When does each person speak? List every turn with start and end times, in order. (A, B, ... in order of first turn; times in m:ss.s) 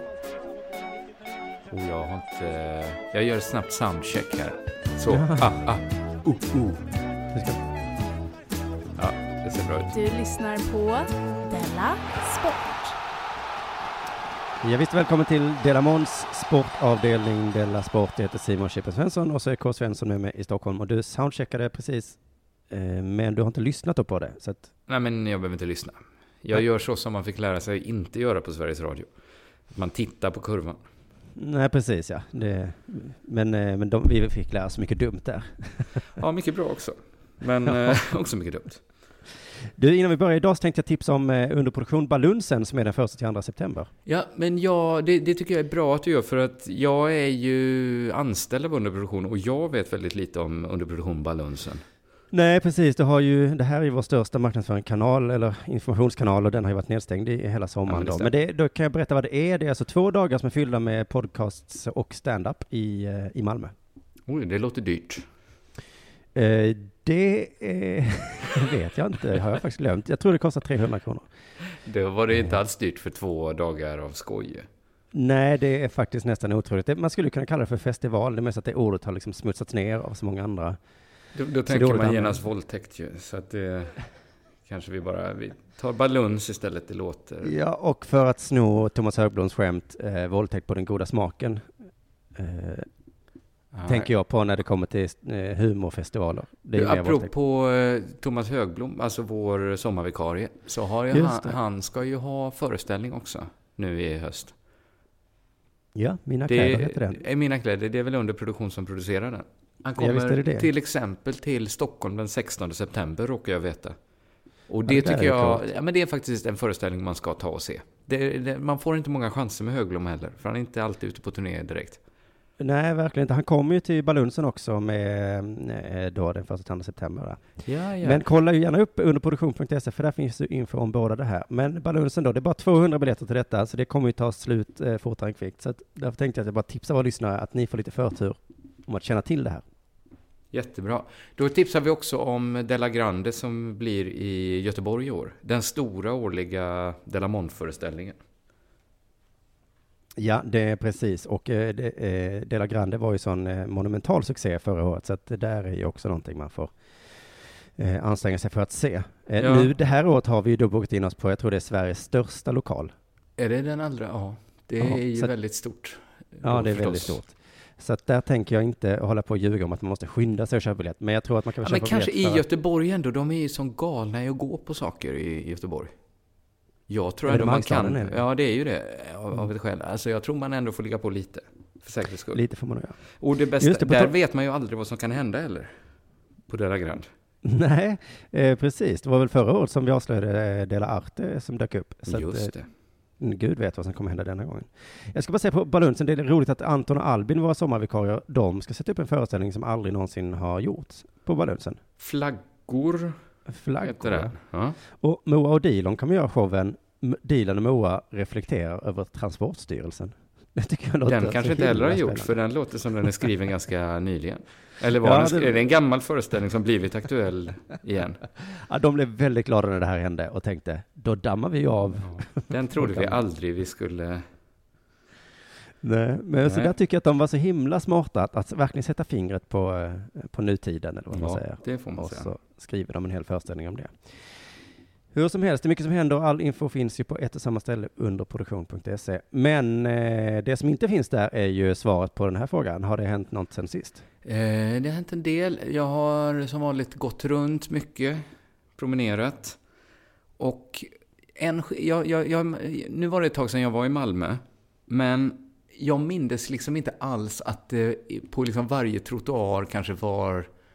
0:01.7-0:06.8 A
0:05.1-0:05.6 B
0:07.3-0:07.6 B
0:09.0-0:09.9 A
0:09.9-0:13.0 C
0:14.6-0:24.7 B
0:24.9-0:29.1 A
0:29.7-0:30.8 A
0:31.4-0:36.0 B
0:36.2-0:38.8 A
0:39.8-0:43.9 B
0:44.0-0:51.8 A
0:52.3-1:03.7 B
0:57.9-0:58.3 A
1:04.3-1:05.3 A
1:06.3-1:11.3 B
1:11.8-1:14.7 A
1:15.1-1:20.8 B
1:21.3-1:24.0 A
1:21.7-1:22.4 B
1:24.6-1:27.5 A
1:27.4-1:31.7 B
1:32.3-1:32.9 B
1:33.7-1:34.1 A
1:33.9-1:37.3 B
1:36.7-1:44.5 A
1:41.1-1:41.5 B
1:45.9-1:47.2 B
1:46.5-1:54.0 A
1:50.0-1:50.7 B
1:54.7-2:02.0 A
1:54.9-1:55.6 B
2:02.6-2:19.6 B
2:07.6-2:08.2 A
2:20.5-2:28.2 A
2:30.2-2:36.7 B
2:37.7-2:42.9 B
2:39.4-2:39.7 A
2:43.4-2:47.2 A
2:44.8-2:45.3 B
2:46.4-2:52.4 B
2:51.6-2:55.9 A
2:56.9-3:02.4 A
2:57.2-2:58.2 B
3:02.3-3:03.0 B
3:03.1-3:05.7 A
3:03.6-3:04.1 B
3:06.5-3:07.1 A
3:07.4-3:12.5 B
3:12.1-3:12.7 A
3:13.2-3:21.8 B
3:22.0-3:23.2 A
3:23.5-3:24.4 B
3:23.8-3:24.8 A
3:24.9-3:32.4 B
3:31.0-3:38.2 A
3:35.0-3:35.6 B
3:38.4-3:43.2 B
3:42.0-3:44.2 A
3:45.8-3:54.3 B
3:46.4-3:46.7 A
3:51.1-3:52.3 A
3:55.1-4:04.0 B
4:04.2-4:08.2 A
4:08.8-4:09.6 A
4:10.4-4:20.5 A